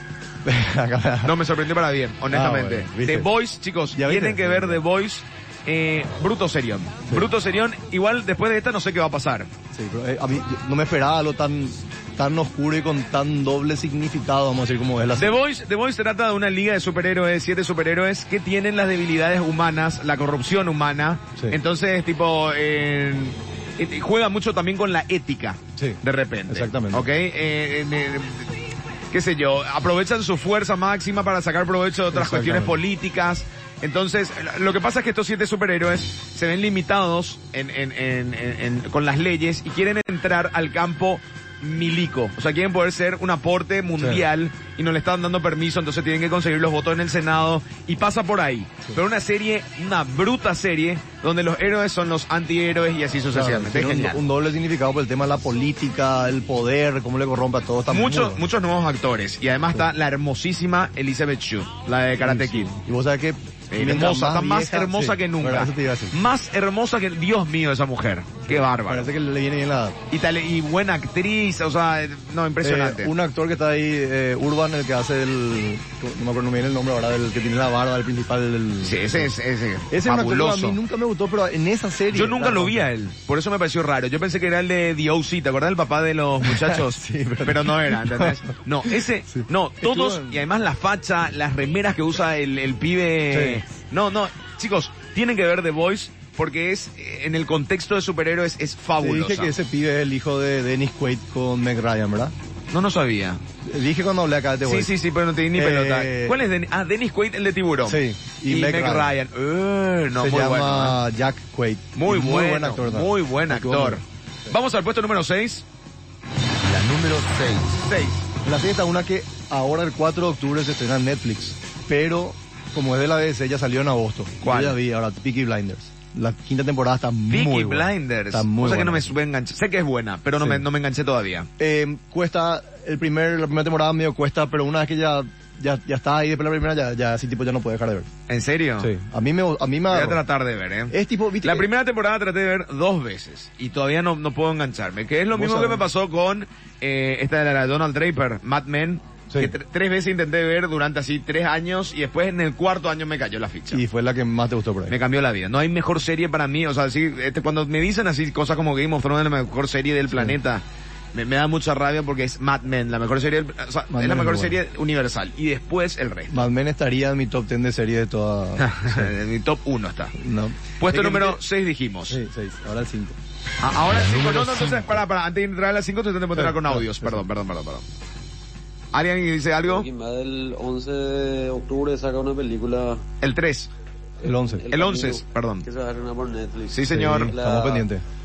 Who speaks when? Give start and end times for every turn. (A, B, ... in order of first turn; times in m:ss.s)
0:00.4-0:01.3 A
0:01.2-0:09.5 B
0:02.3-0:03.3 A
0:03.9-0:04.8 A
0:09.7-0:15.3 A
0:15.2-0:28.5 B
0:25.8-0:27.0 A
0:29.1-0:54.2 B
0:32.1-0:32.8 A
0:44.0-0:44.2 A
0:53.3-0:58.4 A
0:57.9-1:02.7 B
1:02.2-1:06.2 A
1:03.7-1:09.1 B
1:08.4-1:10.0 A
1:10.1-1:13.1 B
1:12.6-1:19.3 A
1:18.8-1:20.8 B
1:19.9-1:22.8 A
1:22.1-1:39.5 B
1:26.4-1:28.4 A
1:29.3-1:30.4 A
1:33.3-1:33.6 A
1:39.0-1:42.3 A
1:42.7-1:43.4 B
1:43.6-1:44.9 A
1:44.6-1:51.0 B
1:45.6-1:46.3 A
1:47.9-1:49.1 A
1:50.2-1:54.0 A
1:52.0-1:55.6 B
1:56.6-1:57.8 C
1:57.8-1:58.2 B
1:58.4-2:09.1 A
2:04.4-2:04.8 B
2:07.3-2:11.5 B
2:11.6-2:18.1 A
2:18.3-2:18.9 B
2:18.8-2:20.2 A
2:19.9-2:33.8 B
2:20.9-2:21.7 A
2:25.3-2:25.8 A
2:33.7-2:34.9 A
2:34.9-2:40.6 B
2:41.1-2:46.4 B
2:43.9-2:44.6 A
2:46.3-2:49.1 A
2:48.6-2:50.1 B
2:50.2-2:51.4 A
2:50.8-2:52.2 B
2:52.1-2:53.2 A
2:53.6-2:57.8 B
2:53.9-2:54.8 C
2:56.4-2:57.2 A
2:58.9-2:59.9 B
2:59.6-3:03.0 D
3:03.2-3:03.7 B
3:04.2-3:04.6 A
3:04.2-3:07.8 D
3:04.7-3:05.6 B
3:06.7-3:07.3 B
3:06.9-3:08.0 A